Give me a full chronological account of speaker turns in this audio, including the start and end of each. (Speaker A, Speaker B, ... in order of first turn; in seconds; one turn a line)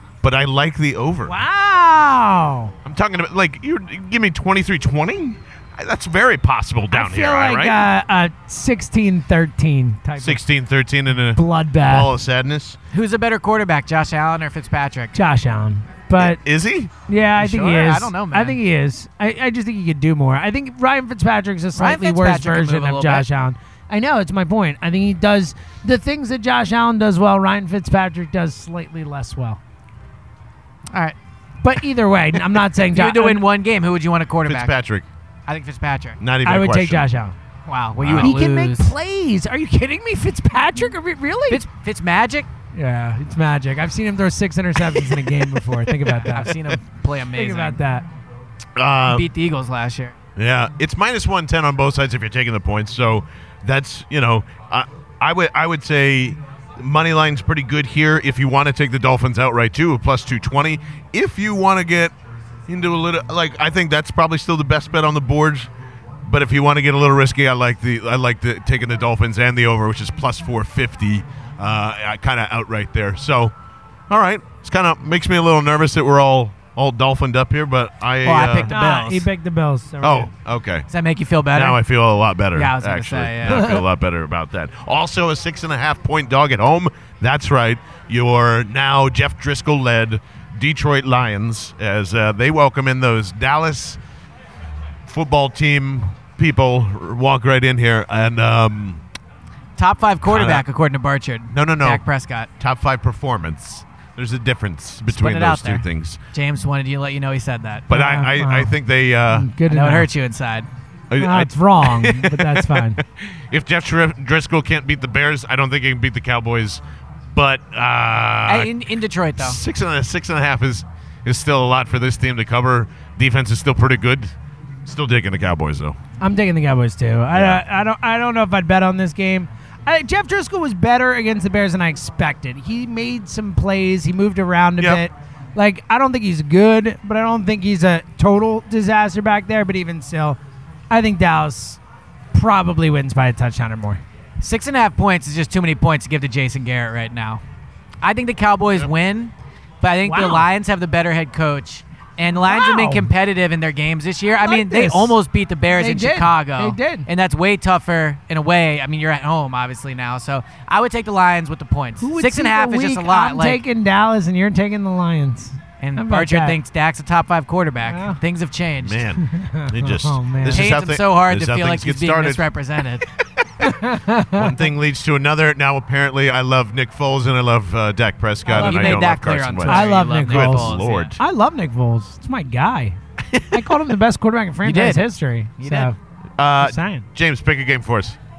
Speaker A: 0.2-1.4
Speaker B: 1.2-2.7
Speaker A: 2.9-7.9
Speaker B: 6.9-10.4
Speaker A: 10.2-12.8
Speaker B: 11.3-12.1
Speaker C: 12.9-15.2
Speaker B: 15.1-16.4
Speaker A: 16.2-16.9
Speaker B: 17.1-29.6
Speaker C: 17.4-18.6
Speaker C: 21.8-23.3
Speaker B: 31.6-33.4
Speaker C: 32.8-34.8
Speaker A: 34.5-35.1
Speaker C: 35.5-36.2
Speaker A: 36.2-37.1
Speaker B: 36.5-37.4
Speaker C: 37.7-38.9
Speaker A: 38.0-38.4
Speaker B: 38.2-41.6
Speaker C: 41.5-42.5
Speaker B: 42.8-46.8
Speaker C: 46.1-47.8
Speaker B: 47.3-48.1
Speaker A: 48.8-49.3
Speaker C: 49.1-50.1
Speaker A: 50.4-62.1
Speaker A: 62.7-65.7
Speaker A: 66.2-73.5
Speaker A: 74.1-78.7
Speaker C: 78.2-79.3
Speaker B: 78.7-80.3
Speaker A: 80.0-80.9
Speaker C: 80.9-81.8
Speaker A: 81.5-94.0
Speaker C: 82.5-83.7
Speaker B: 83.5-83.8
Speaker A: 95.1-99.0
Speaker C: 99.8-102.5
Speaker A: 100.3-100.7
Speaker A: 101.5-102.0
Speaker A: 102.6-106.2
Speaker C: 105.1-107.9
Speaker A: 107.9-109.5
Speaker B: 107.9-108.8
Speaker B: 109.3-110.1
Speaker C: 109.7-110.7
Speaker A: 111.1-116.8
Speaker B: 111.2-113.0
Speaker A: 117.3-118.7
Speaker C: 118.5-119.6
Speaker A: 119.4-124.3
Speaker A: 124.8-126.0
Speaker B: 126.2-140.4
Speaker A: 127.3-127.6
Speaker B: 140.9-141.8
Speaker B: 142.3-144.0
Speaker C: 144.4-147.4
Speaker C: 148.0-163.6
Speaker B: 150.0-150.5
Speaker B: 152.4-153.1
Speaker B: 154.3-155.2
Speaker B: 155.7-157.1
Speaker B: 162.0-166.6
Speaker C: 165.8-169.0
Speaker B: 167.9-168.2
Speaker A: 168.8-172.5
Speaker B: 169.2-170.7
Speaker C: 170.5-173.1
Speaker B: 173.6-174.5
Speaker A: 174.3-181.2
Speaker C: 178.5-181.1
Speaker B: 178.5-179.0
Speaker B: 179.7-183.0
Speaker B: 183.5-185.9
Speaker C: 184.6-185.1
Speaker C: 185.6-185.9
Speaker A: 186.4-188.2
Speaker B: 186.6-187.1